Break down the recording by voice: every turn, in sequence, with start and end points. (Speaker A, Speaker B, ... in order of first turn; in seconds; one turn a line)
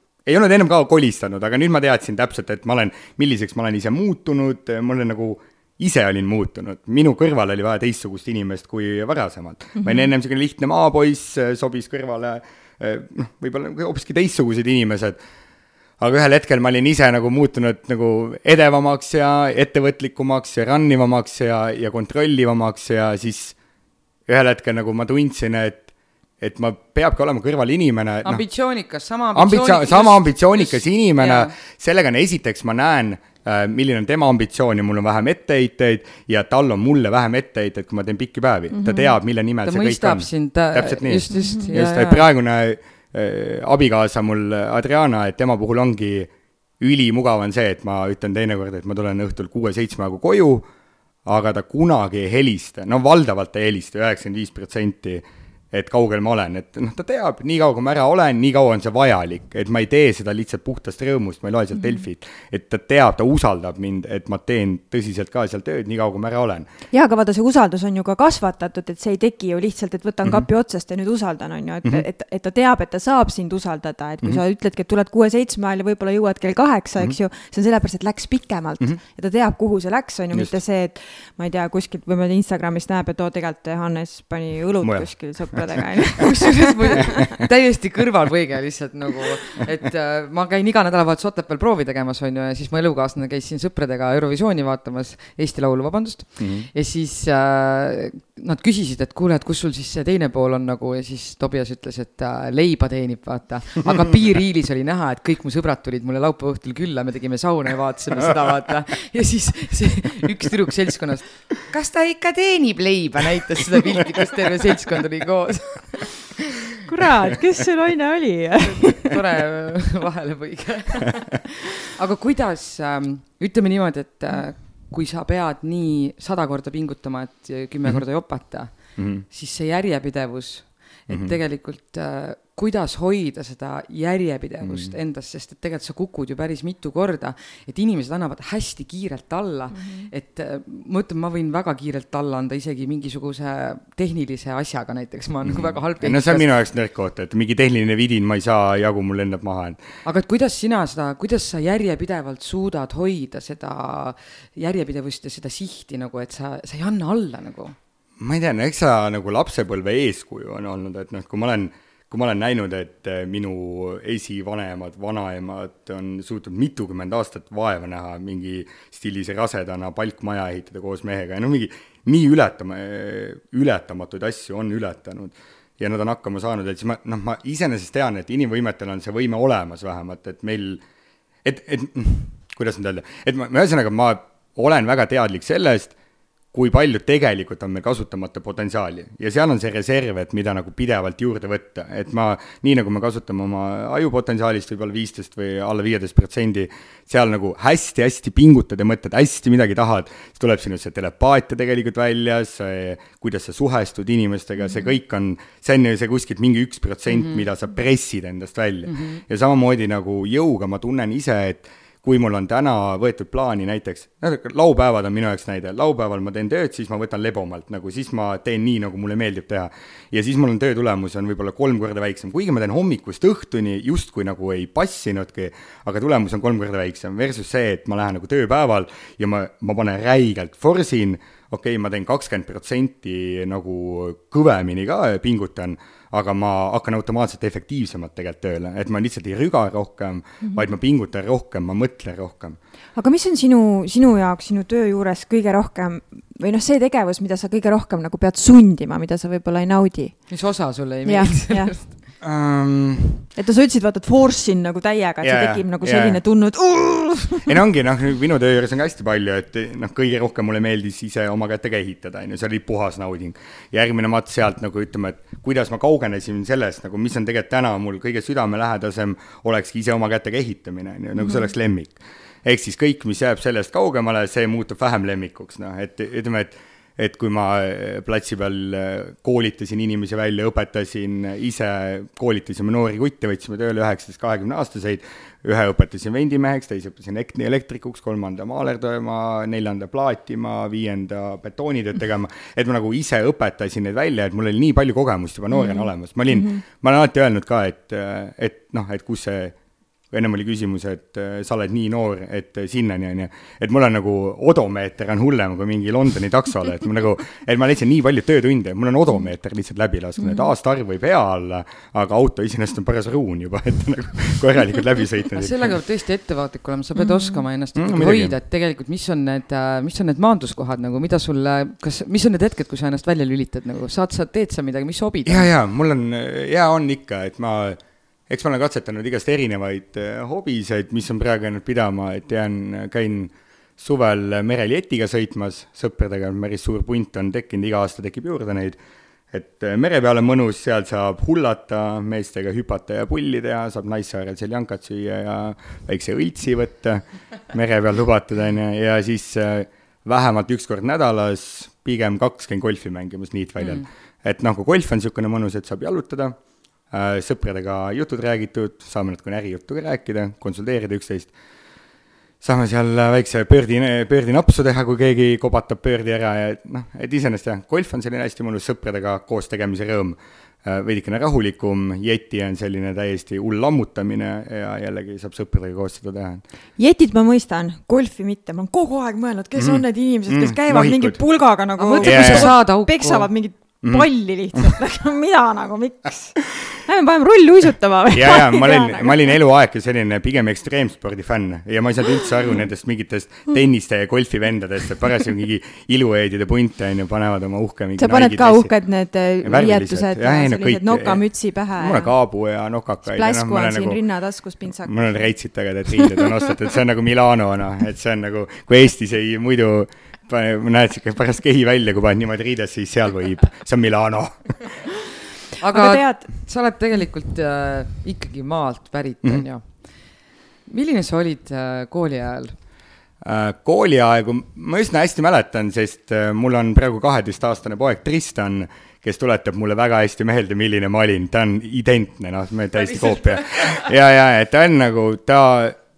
Speaker A: 0.2-15.2
Speaker B: 9.8-10.1
Speaker A: 16.0-23.6
Speaker A: 24.3-25.9
Speaker A: 26.4-28.4
Speaker C: 28.2-31.5
Speaker A: 29.4-50.7
Speaker B: 38.7-39.1
Speaker C: 39.6-42.3
Speaker B: 41.3-41.7
Speaker A: 51.2-66.7
Speaker B: 66.9-87.4
Speaker A: 84.8-85.8
Speaker C: 86.2-116.7
Speaker A: 96.4-96.7
Speaker A: 113.8-114.2
Speaker B: 116.9-119.2
Speaker C: 118.6-146.5
Speaker A: 129.0-129.2
Speaker A: 131.1-131.3
Speaker A: 134.6-134.9
Speaker B: 139.7-140.1
Speaker A: 145.4-149.8
Speaker C: 150.1-157.8
Speaker A: 158.2-180.8
Speaker A: 181.4-185.9
Speaker A: 186.5-242.6
Speaker C: 207.2-207.4
Speaker C: 208.9-209.2
Speaker B: 243.0-250.3
Speaker C: 250.3-251.9
Speaker B: 251.1-251.8
Speaker A: 252.2-253.3
Speaker B: 253.4-257.5
Speaker A: 255.2-256.2
Speaker A: 257.4-299.6
Speaker B: 271.2-271.5
Speaker B: 295.5-296.6
Speaker A: 300.1-315.8
Speaker C: 315.3-325.5
Speaker B: 317.0-317.4
Speaker A: 317.8-318.4
Speaker A: 325.3-338.8
Speaker A: 339.3-356.4
Speaker A: 356.9-361.3
Speaker A: 362.4-376.4
Speaker B: 376.8-389.3
Speaker A: 379.6-381.2
Speaker C: 381.8-383.3
Speaker A: 382.0-382.5
Speaker A: 383.8-384.7
Speaker A: 388.1-398.7
Speaker B: 398.0-402.1
Speaker A: 399.4-401.2
Speaker A: 401.8-404.0
Speaker B: 403.1-405.1
Speaker A: 404.9-414.9
Speaker C: 415.6-422.6
Speaker B: 415.7-416.3
Speaker A: 423.2-435.8
Speaker C: 432.8-433.9